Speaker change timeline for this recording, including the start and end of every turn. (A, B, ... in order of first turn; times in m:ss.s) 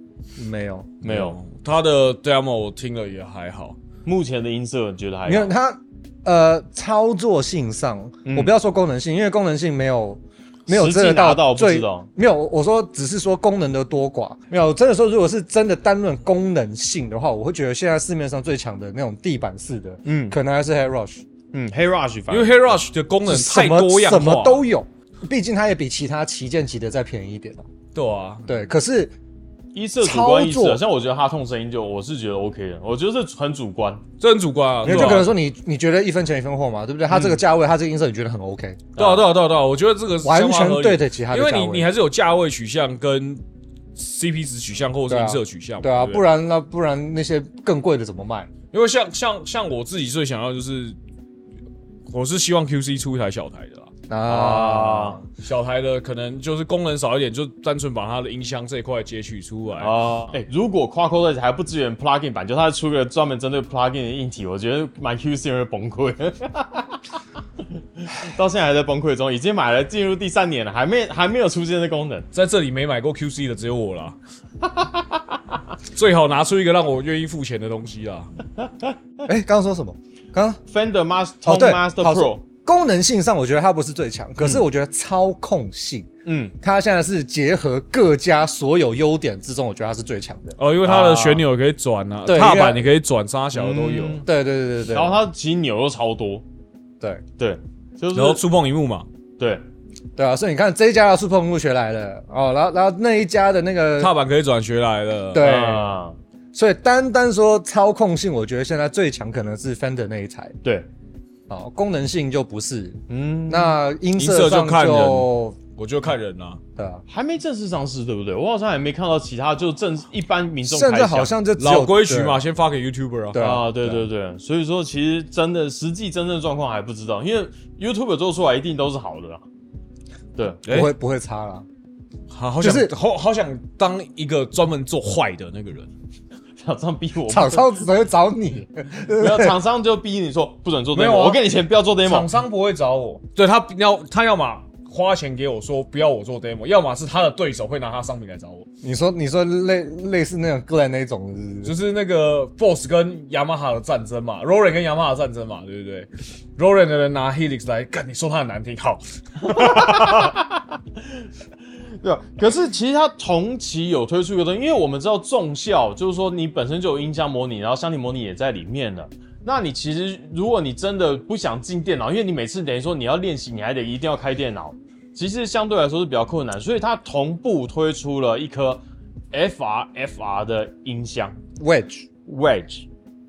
0:00.4-0:01.0 A
0:01.0-0:01.4 B
0:01.0-0:03.8 C
0:04.0-0:05.5 B
0:05.3-0:21.2 A
0:08.2-0:08.5 B
0:10.7-0:12.1 B
0:20.0-0:20.4 B
0:21.5-0:22.8 B
0:22.3-0:24.6 C
0:23.3-0:27.7 A
0:28.0-0:28.5 C
0:28.5-0:29.1 A
0:29.7-0:34.0 B
0:30.0-0:30.8 A
0:34.2-0:35.3 C
0:34.8-0:38.8 A
0:34.9-0:35.2 B
0:37.1-0:37.4 B
0:39.0-0:39.3 B
0:39.0-0:43.4 C
0:40.2-0:41.9 A
0:44.0-0:46.2 C
0:45.1-0:48.5 A
0:48.7-0:51.0 C
0:52.1-0:53.9 C
0:54.1-0:55.2 A
0:54.3-0:55.2 B
0:55.3-1:00.0 C
0:59.8-1:07.0 B
1:07.8-1:12.3 B
1:12.3-1:14.2 C
1:14.6-1:15.4 B
1:15.9-1:18.3 C
1:18.6-1:19.0 B
1:19.3-1:20.6 A
1:20.7-1:22.4 B
1:21.4-1:26.1 A
1:26.2-1:26.6 B
1:26.6-1:30.6 A
1:30.6-1:34.2 C
1:30.8-1:31.5 B
1:32.2-1:32.8 A
1:33.5-1:34.3 B
1:34.2-1:35.2 A
1:34.9-1:36.4 B
1:37.4-1:38.4 B
1:38.1-1:39.1 C
1:39.4-1:39.6 B
1:40.2-1:44.1 A
1:44.0-1:45.5 C
1:45.3-1:46.0 A
1:45.4-1:46.2 B
1:46.5-1:50.6 A
1:51.5-1:55.6 A
1:53.1-1:53.8 B
1:54.2-1:56.6 C
1:56.8-1:57.0 A
1:57.1-2:01.4 B
2:00.7-2:02.4 A
2:01.6-2:03.5 C
2:03.3-2:04.0 A
2:03.4-2:09.4 B
2:10.4-2:10.6 B
2:10.6-2:10.9 C
2:10.7-2:11.7 A
2:12.3-2:15.9 C
2:12.6-2:12.9 A
2:16.6-2:17.9 B
2:17.3-2:19.6 A
2:19.2-2:22.3 B
2:20.9-2:21.5 C
2:22.0-2:28.7 C
2:28.8-2:31.7 A
2:31.6-2:40.4 C
2:39.4-2:41.2 B
2:42.0-3:01.4 B
3:01.6-3:02.1 A
3:02.3-3:02.9 B